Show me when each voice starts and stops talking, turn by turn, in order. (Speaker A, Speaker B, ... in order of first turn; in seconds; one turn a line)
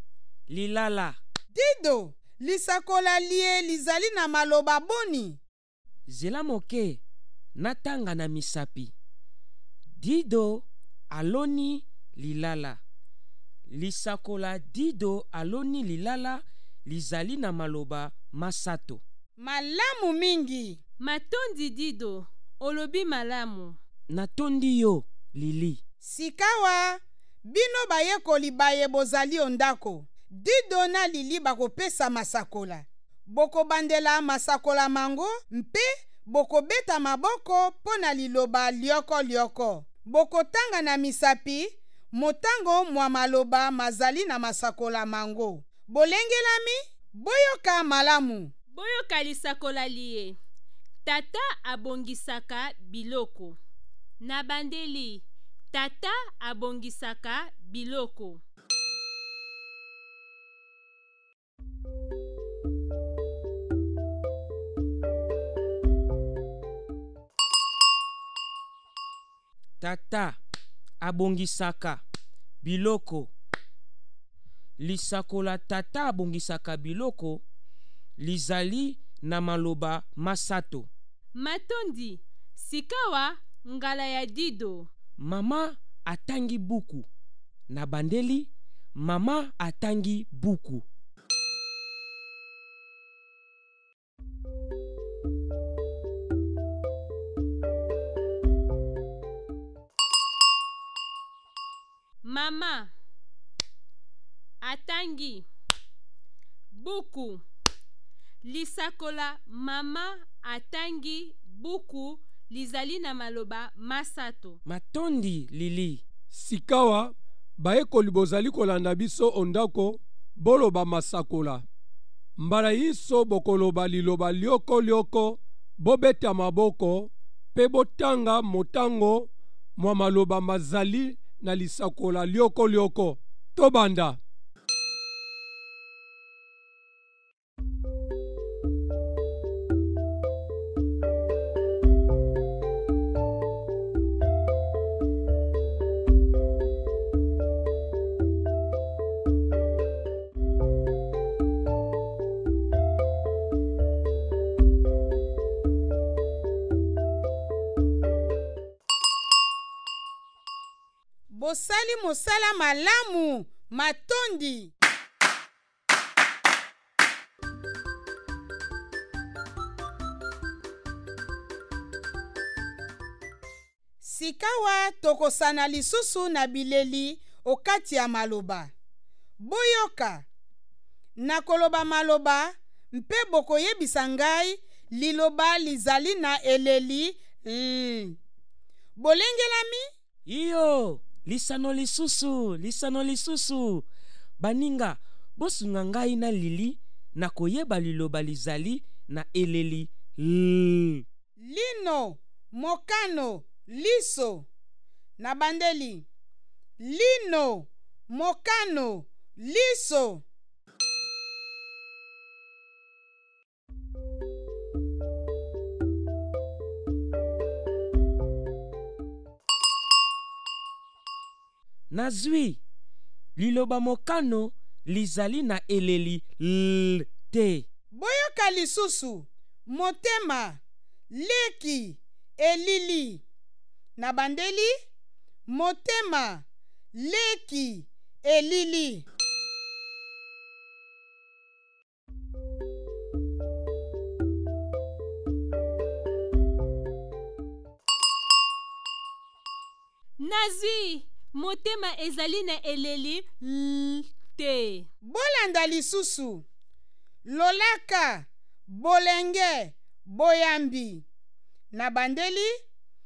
Speaker A: 0.5-1.2
Speaker B: 1.5-5.4
Speaker A: 6.1-7.0
Speaker A: 7.6-8.9
Speaker A: 10.0-12.8
Speaker A: 13.7-19.0
Speaker B: 19.4-20.8
Speaker C: 21.0-23.8
Speaker A: 24.1-25.8
Speaker B: 26.0-48.5
Speaker C: 48.7-50.4
Speaker C: 51.0-53.6
Speaker C: 54.2-58.4
Speaker A: 69.8-70.4
Speaker A: 71.0-72.0
Speaker A: 72.6-73.3
Speaker A: 74.8-77.4
Speaker A: 78.2-80.9
Speaker C: 81.3-84.9
Speaker A: 85.2-87.1
Speaker A: 87.7-90.8
Speaker C: 102.2-102.9
Speaker C: 104.6-105.5
Speaker C: 106.7-107.4
Speaker C: 108.4-114.6
Speaker A: 114.7-116.0
Speaker D: 116.3-121.6
Speaker D: 122.4-134.2
Speaker B: 161.3-164.7
Speaker B: 174.0-178.7
Speaker B: 179.4-180.3
Speaker B: 181.2-188.2
Speaker B: 189.0-189.9
Speaker A: 190.3-193.9
Speaker A: 194.4-201.1
Speaker B: 201.4-204.5
Speaker B: 205.2-206.1
Speaker B: 206.8-210.2
Speaker A: 221.9-222.6
Speaker A: 223.4-227.7
Speaker B: 227.9-233.2
Speaker B: 234.0-234.7
Speaker B: 235.5-239.1
Speaker C: 250.2-254.9
Speaker B: 255.0-256.5
Speaker B: 257.3-261.1
Speaker B: 261.7-262.5